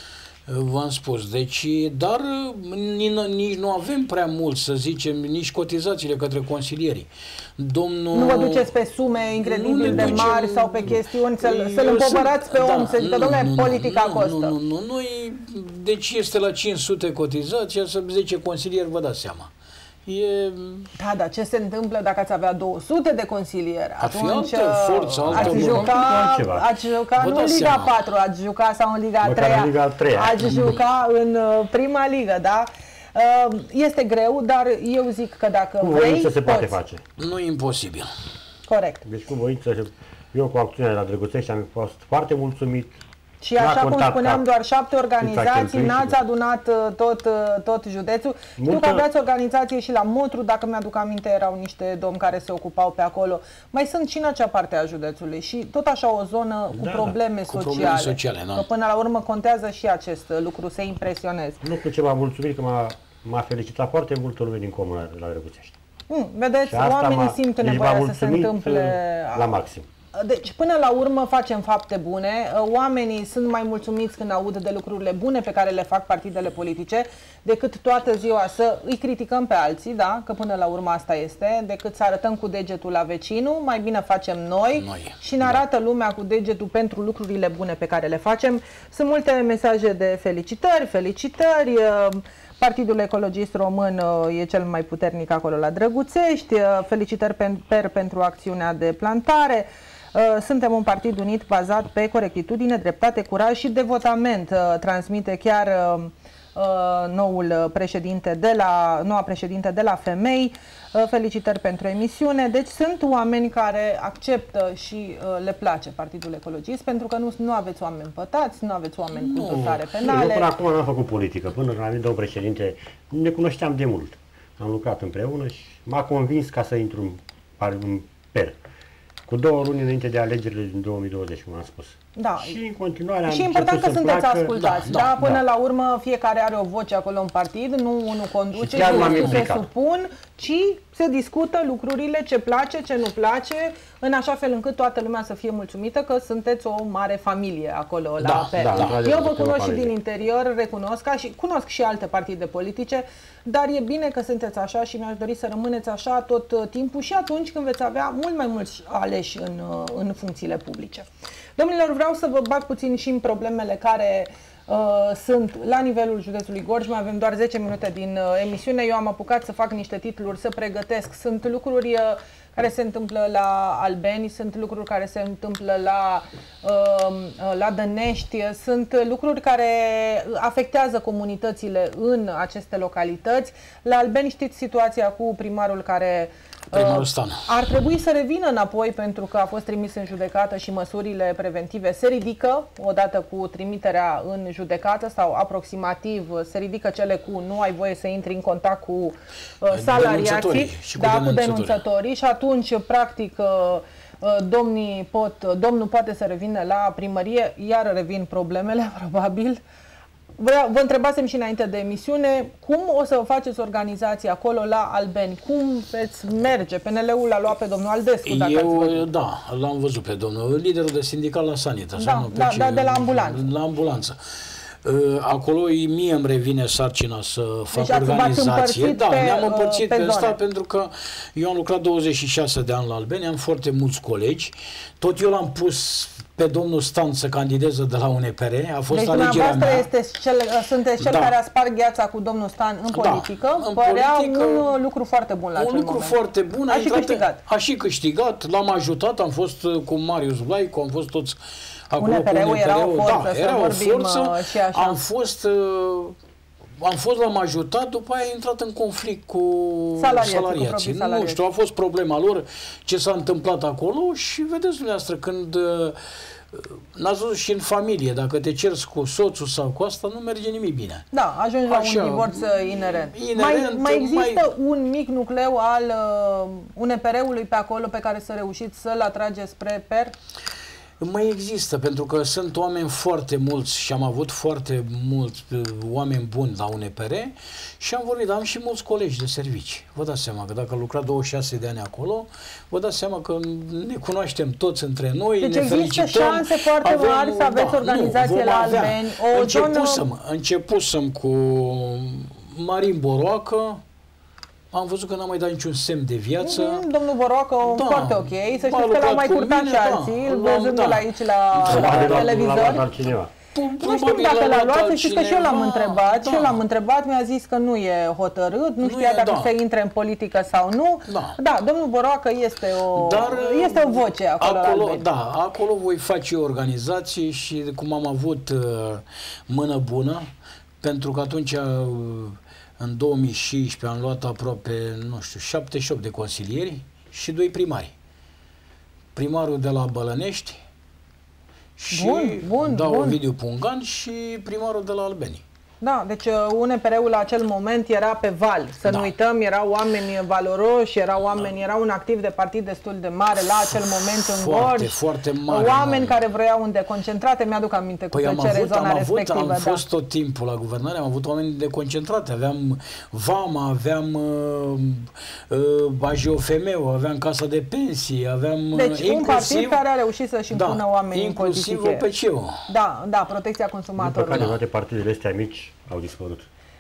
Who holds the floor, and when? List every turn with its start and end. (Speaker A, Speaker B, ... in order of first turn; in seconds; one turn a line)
Speaker A: 0.5-8.7
Speaker B: 8.1-14.6
Speaker A: 9.4-19.5
Speaker C: 9.8-10.3
Speaker A: 20.1-20.9
Speaker B: 21.0-36.8
Speaker A: 24.0-25.9
Speaker C: 25.3-26.7
Speaker A: 27.2-27.9
Speaker C: 29.2-30.8
Speaker A: 30.4-30.8
Speaker C: 35.8-37.0
Speaker A: 37.2-38.1
Speaker B: 38.7-39.0
Speaker C: 39.0-43.0
Speaker B: 43.4-61.6
Speaker C: 43.6-44.4
Speaker C: 45.2-46.2
Speaker C: 48.6-49.1
Speaker C: 56.7-57.1
Speaker A: 57.5-58.7
Speaker C: 61.6-65.8
Speaker B: 66.1-120.5
Speaker C: 66.7-69.9
Speaker A: 84.8-85.6
Speaker A: 119.1-119.8
Speaker C: 119.5-128.6
Speaker C: 129.3-134.5
Speaker B: 132.2-132.6
Speaker B: 133.3-209.6
Speaker A: 134.6-135.2
Speaker C: 138.5-139.7
Speaker A: 138.8-139.4
Speaker A: 148.2-149.0
Speaker C: 148.6-149.9
Speaker A: 186.7-187.4
Speaker A: 199.7-201.8
Speaker B: 210.4-219.1
Speaker A: 218.2-239.9
Speaker B: 222.0-223.5
Speaker B: 227.7-230.4
Speaker B: 238.9-246.2
Speaker A: 241.0-241.3
Speaker A: 242.9-244.7
Speaker A: 245.6-251.4
Speaker B: 246.7-247.4
Speaker A: 251.9-256.2
Speaker B: 252.0-255.0
Speaker A: 256.8-266.0
Speaker B: 260.0-261.4
Speaker A: 266.5-271.1
Speaker B: 271.1-280.1
Speaker A: 271.7-274.5
Speaker A: 281.0-303.8
Speaker B: 295.4-300.0
Speaker A: 304.7-306.9
Speaker B: 306.4-312.8
Speaker A: 307.7-312.8
Speaker C: 311.7-313.3
Speaker A: 313.5-316.6
Speaker B: 313.8-325.0
Speaker A: 318.8-319.5
Speaker A: 321.1-321.4
Speaker A: 322.9-330.3
Speaker A: 330.8-337.9
Speaker A: 339.1-340.6
Speaker A: 341.8-345.4
Speaker B: 341.9-343.2
Speaker B: 345.8-359.8
Speaker A: 348.9-349.1
Speaker A: 353.7-356.2
Speaker A: 358.1-369.9
Speaker B: 368.7-372.1
Speaker A: 370.5-372.6
Speaker B: 372.7-374.5
Speaker C: 374.0-376.5
Speaker A: 374.3-374.6